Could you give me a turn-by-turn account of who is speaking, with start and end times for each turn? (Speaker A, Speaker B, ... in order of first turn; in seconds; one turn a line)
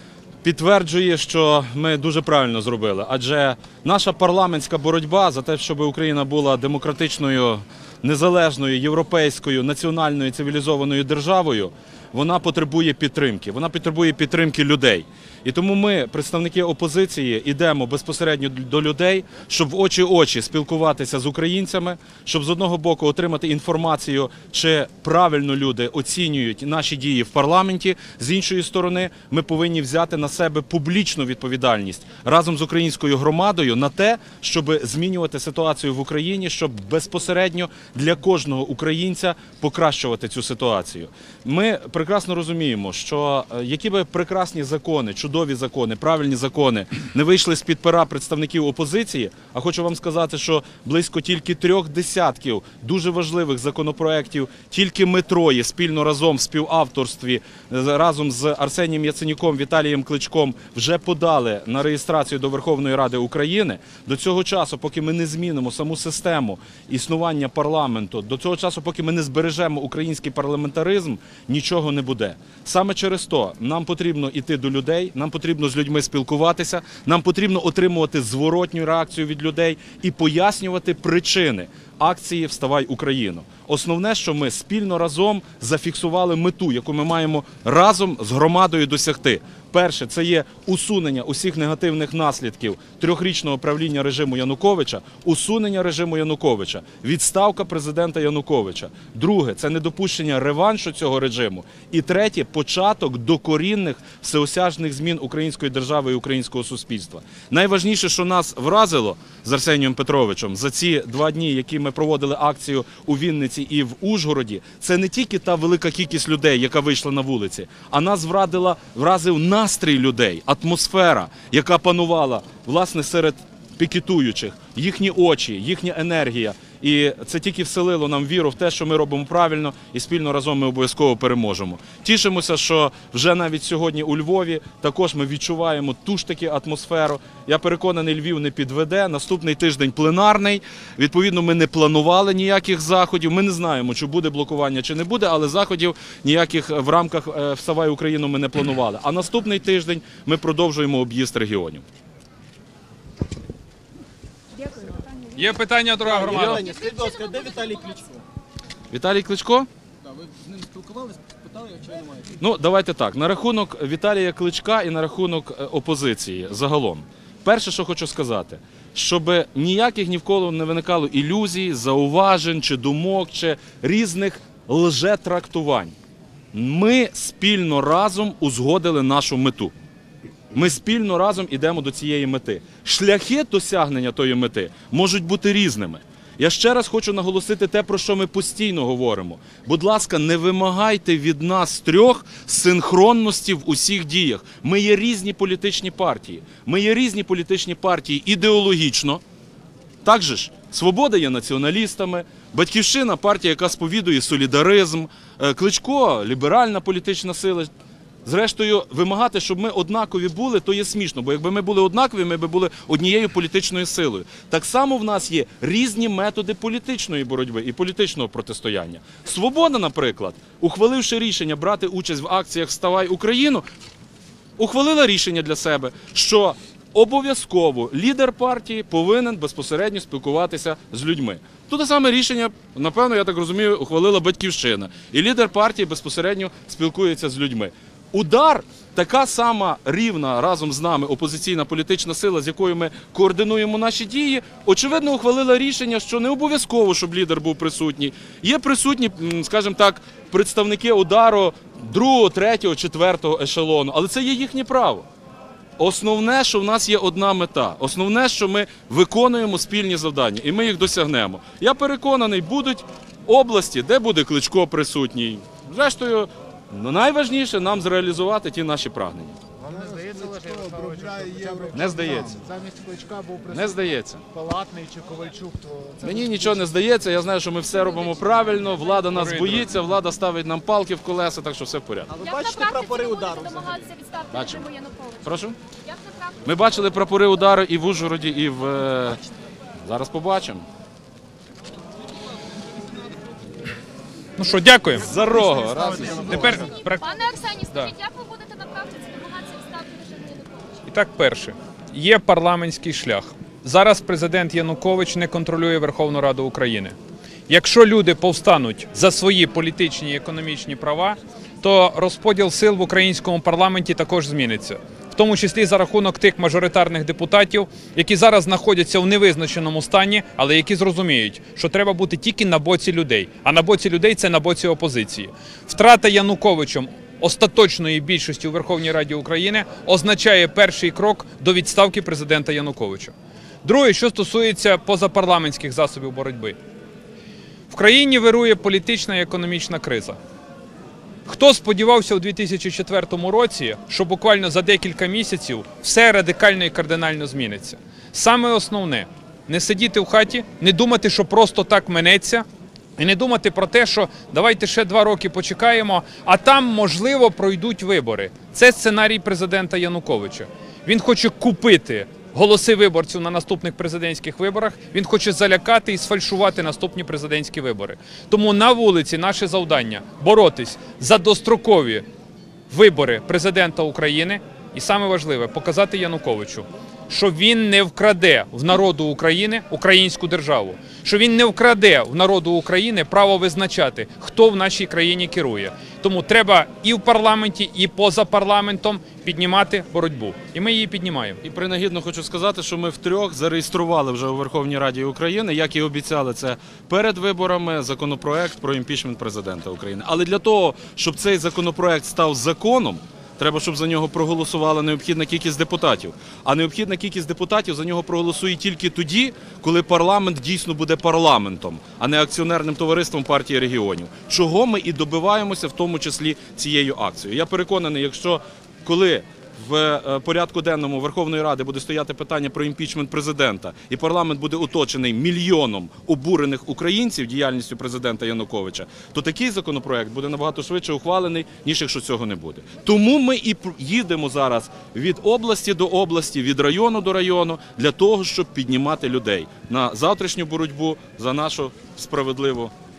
Speaker A: 0.4-151.8
Speaker B: 155.3-156.6
Speaker C: 156.0-158.2
Speaker D: 156.5-158.0
Speaker A: 158.9-159.7
Speaker C: 160.0-162.4
Speaker A: 162.4-175.9
Speaker A: 176.5-179.7
Speaker A: 180.5-199.2
Speaker A: 200.0-207.7
Speaker A: 208.2-223.7
Speaker A: 224.6-255.1
Speaker A: 255.8-269.4
Speaker E: 269.6-273.6
Speaker C: 270.0-271.7
Speaker A: 271.7-272.4
Speaker A: 273.5-274.2
Speaker E: 274.3-276.3
Speaker A: 276.0-282.1
Speaker B: 279.1-279.7
Speaker C: 282.1-283.8
Speaker D: 282.2-285.2
Speaker A: 284.3-284.7
Speaker A: 285.2-285.6
Speaker D: 285.8-286.4
Speaker A: 286.4-289.2
Speaker A: 289.8-290.6
Speaker B: 294.4-295.2
Speaker A: 294.9-296.6
Speaker B: 296.1-297.9
Speaker D: 296.6-300.8
Speaker B: 300.9-306.9
Speaker B: 307.5-336.6
Speaker B: 337.7-340.2
Speaker B: 341.2-352.4
Speaker B: 353.0-372.0
Speaker B: 372.7-391.4
Speaker A: 391.4-442.7